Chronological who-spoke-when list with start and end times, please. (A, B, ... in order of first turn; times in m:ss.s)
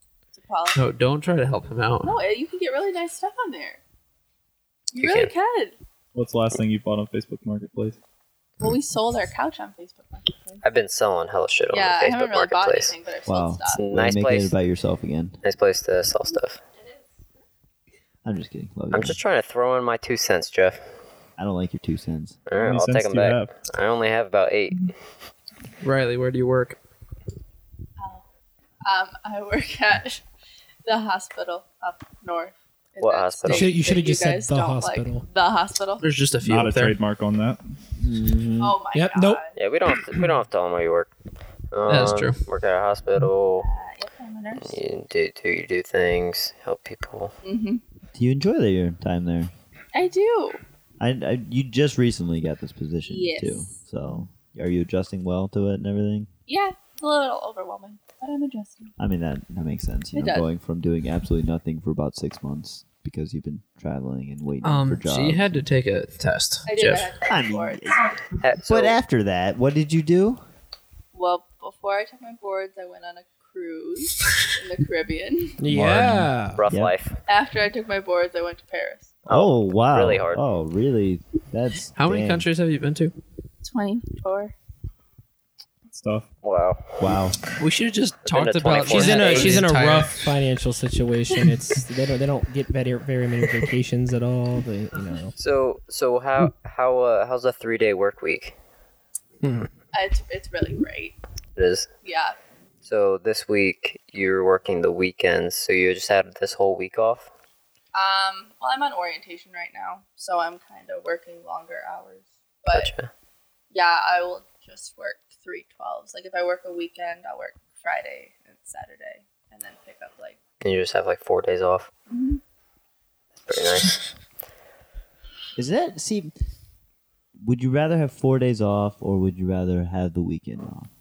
0:00.3-0:00.8 A
0:00.8-0:02.2 B
0:02.0-0:03.8 A
0:04.9-0:05.8 A
0:05.0-0:05.3 C
0:06.1-0:08.0 D
0:08.6-0:10.6 A
0:10.6-0:13.0 C
0:11.7-0:13.8 A
0:13.3-0:15.4 E
0:13.7-0:14.5 C
0:15.4-0:16.6 C
0:18.2-0:19.2 E
0:18.9-0:20.8 C
0:21.4-0:22.4 E
0:22.5-0:24.9 C
0:22.6-0:23.5 D
0:25.8-0:26.8 B
0:28.0-0:28.2 A
0:28.8-0:30.2 A
0:30.8-0:36.1 A
0:33.0-0:33.8 C
0:33.5-0:35.2 F
0:36.0-0:37.0 B
0:36.4-0:37.8 D
0:38.0-0:38.8 E
0:38.6-0:39.6 A
0:38.9-0:39.4 F
0:39.6-0:41.1 C
0:41.7-0:43.7 C
0:41.9-0:42.4 B
0:43.6-0:44.8 A
0:44.6-0:47.4 C
0:47.4-0:47.8 A
0:48.1-0:49.5 E
0:49.9-0:50.6 A
0:51.0-0:56.3 E
0:53.0-0:53.7 A
0:56.5-0:58.9 A
0:59.0-1:05.6 E
1:00.1-1:00.5 A
1:04.6-1:07.2 B
1:06.7-1:07.8 A
1:07.3-1:10.4 E
1:08.4-1:09.0 C
1:11.1-1:15.6 A
1:15.6-1:16.6 F
1:15.7-1:17.0 E
1:16.6-1:17.2 C
1:17.3-1:19.2 A
1:19.3-1:20.4 C
1:19.3-1:22.5 E
1:22.0-1:23.2 B
1:23.6-1:24.5 A
1:25.9-1:26.3 D
1:26.4-1:27.2 C
1:27.0-1:27.4 E
1:27.6-1:30.3 B
1:28.3-1:29.7 C
1:28.9-1:35.3 F
1:35.4-1:38.6 C
1:39.4-1:39.7 F
1:39.9-1:41.2 A
1:41.6-1:41.9 C
1:42.0-1:42.4 A
1:42.8-1:47.3 C
1:47.9-1:52.9 A
1:52.7-1:53.1 C
1:53.7-2:00.4 A
2:00.6-2:01.9 C
2:02.1-2:02.4 A
2:03.5-2:04.0 C
2:05.6-2:06.3 E
2:07.4-2:10.9 E